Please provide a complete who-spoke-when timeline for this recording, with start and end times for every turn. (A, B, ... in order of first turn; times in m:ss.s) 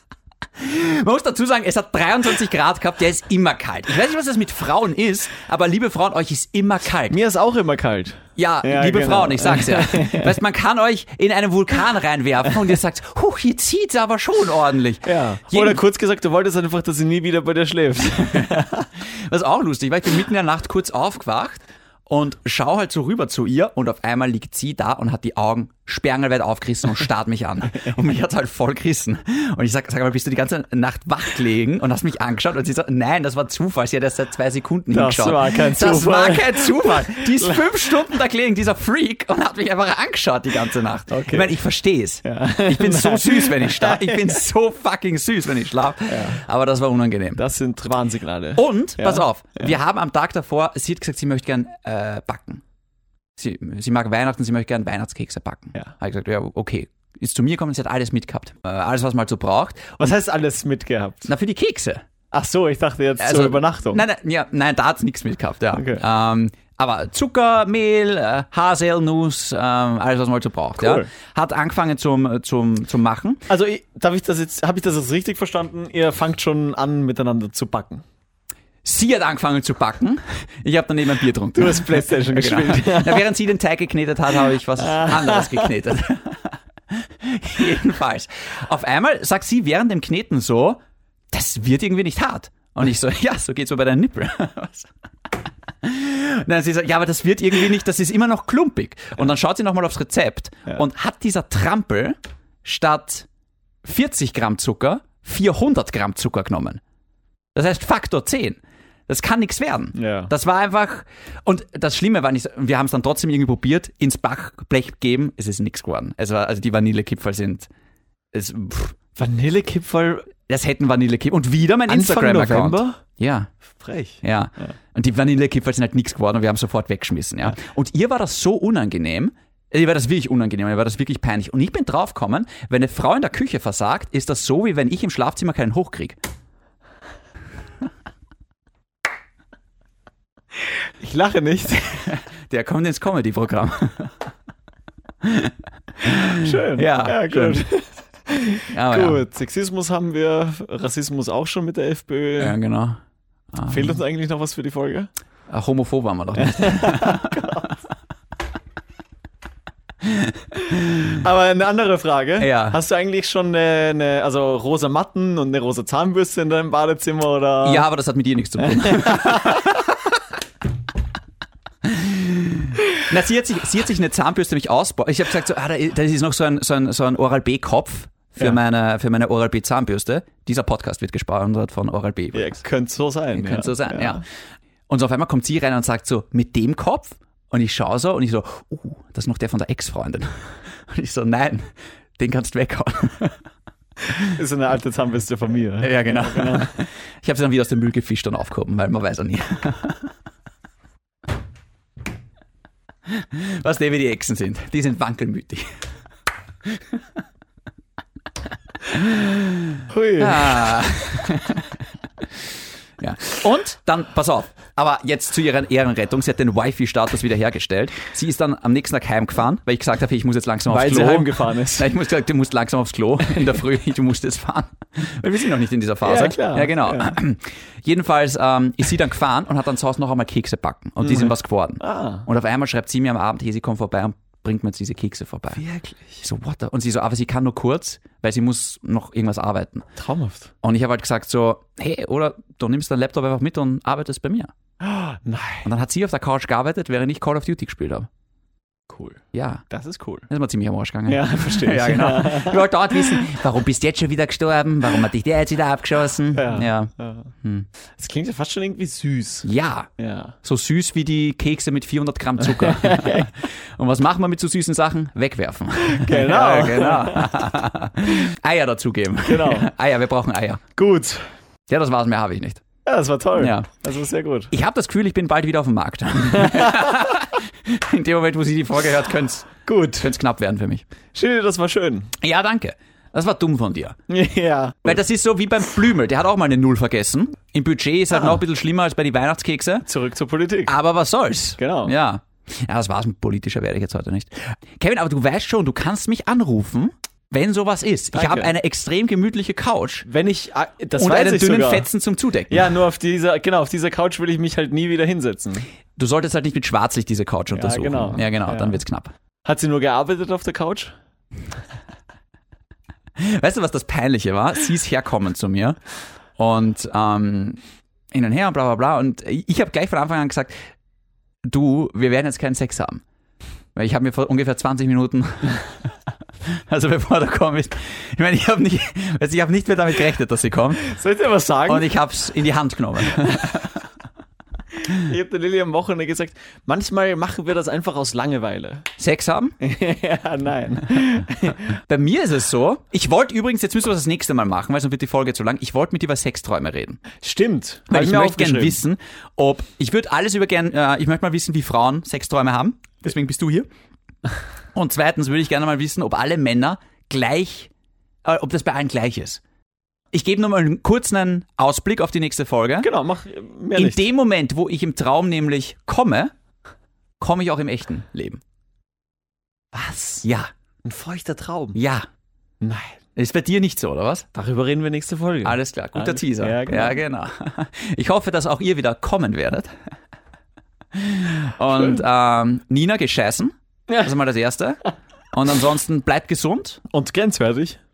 0:00.6-0:07.2 A
0:07.1-0:10.4 B
0:08.4-0:15.8 A
0:15.0-0:18.9 B
0:19.1-0:47.4 A
0:34.9-0:37.7 B
0:41.1-0:41.6 B
0:42.2-0:44.4 B
0:46.1-0:46.4 B
0:47.4-0:49.7 B
0:48.6-0:52.6 A
0:53.4-1:00.1 A
1:00.0-1:01.3 B
1:01.2-1:02.0 A
1:02.3-1:04.0 B
1:03.2-1:13.4 A
1:05.7-1:06.0 B
1:10.8-1:11.1 B
1:13.5-1:18.0 B
1:18.8-1:34.9 A
1:21.5-1:23.3 B
1:24.8-1:25.7 B
1:35.8-1:43.3 A
1:43.8-1:46.8 A
1:47.5-1:57.7 A
1:49.9-1:50.3 B
1:58.3-1:59.0 A
1:59.2-2:00.3 B
2:00.4-2:03.5 A
2:01.9-2:03.0 B
2:03.8-2:04.8 B
2:04.2-2:16.2 A
2:21.0-2:22.1 B
2:22.0-2:24.1 A
2:25.2-2:27.6 A
2:26.2-2:32.6 B
2:28.7-2:29.2 A
2:32.4-2:33.0 A
2:33.5-2:34.0 A
2:33.7-2:35.1 B
2:35.5-2:37.4 A
2:36.4-2:37.7 B
2:41.1-2:47.8 B
2:42.4-2:42.8 A
2:47.6-2:49.9 A
2:48.8-2:49.6 B
2:51.8-3:02.6 A
3:02.3-3:04.2 B
3:03.3-3:04.2 A
3:04.9-3:13.4 A
3:14.2-3:16.7 B
3:15.8-3:20.1 A
3:23.1-3:25.7 A
3:26.6-3:27.0 A
3:28.9-3:31.8 A
3:29.9-3:30.9 B
3:33.0-3:55.6 A
3:40.7-3:41.9 B
3:46.0-3:47.2 B
3:51.0-3:52.2 B
3:55.5-3:56.2 B
3:56.2-3:59.9 A
4:00.0-4:00.5 B
4:00.6-4:04.5 A
4:04.8-4:05.7 B
4:05.6-4:08.1 A
4:08.9-4:10.3 B
4:09.3-4:09.6 A
4:10.3-4:17.7 A
4:11.0-4:13.3 B
4:16.3-4:17.3 B
4:18.0-4:20.4 B
4:19.4-4:19.9 A
4:20.4-4:30.6 A
4:22.4-4:23.3 B
4:25.8-4:27.3 B
4:29.2-4:29.7 B
4:30.8-4:31.2 B
4:31.7-4:32.6 A
4:32.8-4:34.5 B
4:33.4-4:33.7 A
4:34.5-4:40.8 A
4:36.4-4:36.9 B
4:39.6-4:40.1 B
4:41.1-4:42.1 B
4:42.2-4:44.0 A
4:44.1-4:45.0 B
4:44.8-4:49.8 A
4:48.1-4:48.4 B
4:49.8-4:50.7 B
4:50.7-5:00.0 A
4:51.6-4:51.9 B
4:58.1-4:58.5 B
5:00.0-5:01.9 B
5:01.0-5:02.8 A
5:02.5-5:05.7 B
5:06.0-5:09.1 A
5:07.5-5:08.8 B
5:09.4-5:10.9 B
5:13.2-5:15.8 A
5:16.4-5:17.6 A
5:18.1-5:20.5 A
5:21.4-5:23.0 A
5:23.7-5:25.9 A
5:26.4-5:30.8 A
5:30.8-5:31.9 B
5:31.7-5:33.8 A
5:34.9-5:38.9 B
5:39.0-5:39.6 A
5:39.6-5:41.6 B
5:41.9-5:47.0 A
5:47.2-5:48.8 B
5:47.9-5:53.7 A
5:54.7-5:57.7 A
5:58.2-5:59.4 A
6:00.1-6:02.9 A
6:02.8-6:04.1 B
6:03.8-6:06.3 A
6:07.2-6:08.4 A
6:09.7-6:10.2 B
6:10.2-6:10.5 A
6:10.8-6:11.8 B
6:11.7-6:12.0 A
6:12.6-6:12.9 B
6:13.2-6:14.3 A
6:14.3-6:17.0 B
6:15.4-6:19.7 A
6:20.9-6:24.8 A
6:25.3-6:26.8 A
6:26.9-6:27.8 B